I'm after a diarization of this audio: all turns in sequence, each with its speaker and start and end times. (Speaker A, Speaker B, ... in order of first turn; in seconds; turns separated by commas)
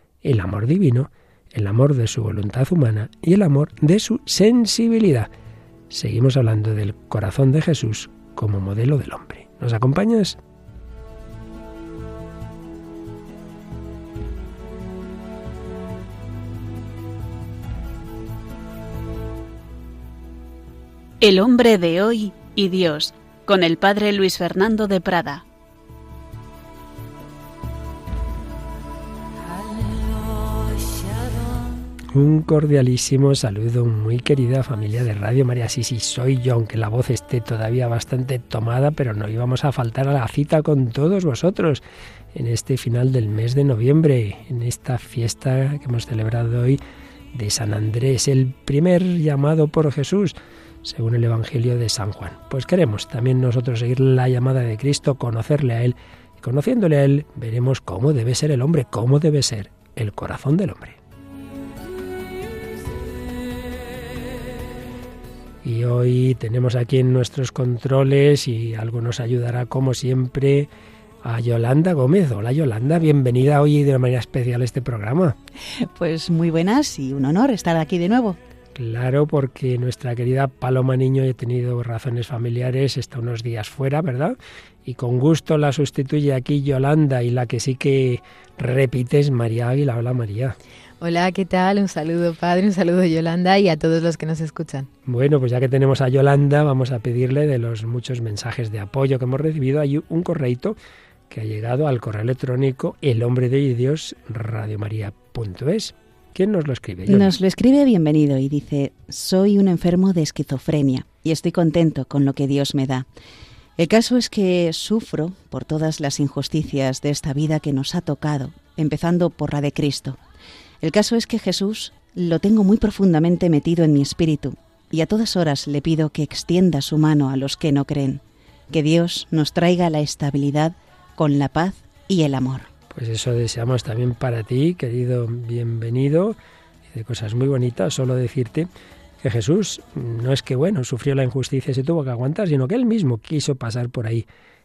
Speaker A: 0.2-5.3, Speaker A: 5.9-10.4, Speaker B: 21.2-25.4, Speaker A: 32.1-46.8, Speaker A: 47.3-61.0, Speaker A: 65.6-70.7, Speaker A: 71.2-75.3, Speaker C: 75.7-78.4, Speaker A: 78.8-90.6, Speaker D: 91.0-94.9, Speaker A: 95.1-100.8, Speaker A: 101.3-107.3, Speaker C: 107.1-113.1, Speaker C: 113.8-120.2, Speaker C: 120.8-132.7, Speaker A: 132.9-136.3, Speaker A: 136.9-138.7, Speaker A: 139.2-144.2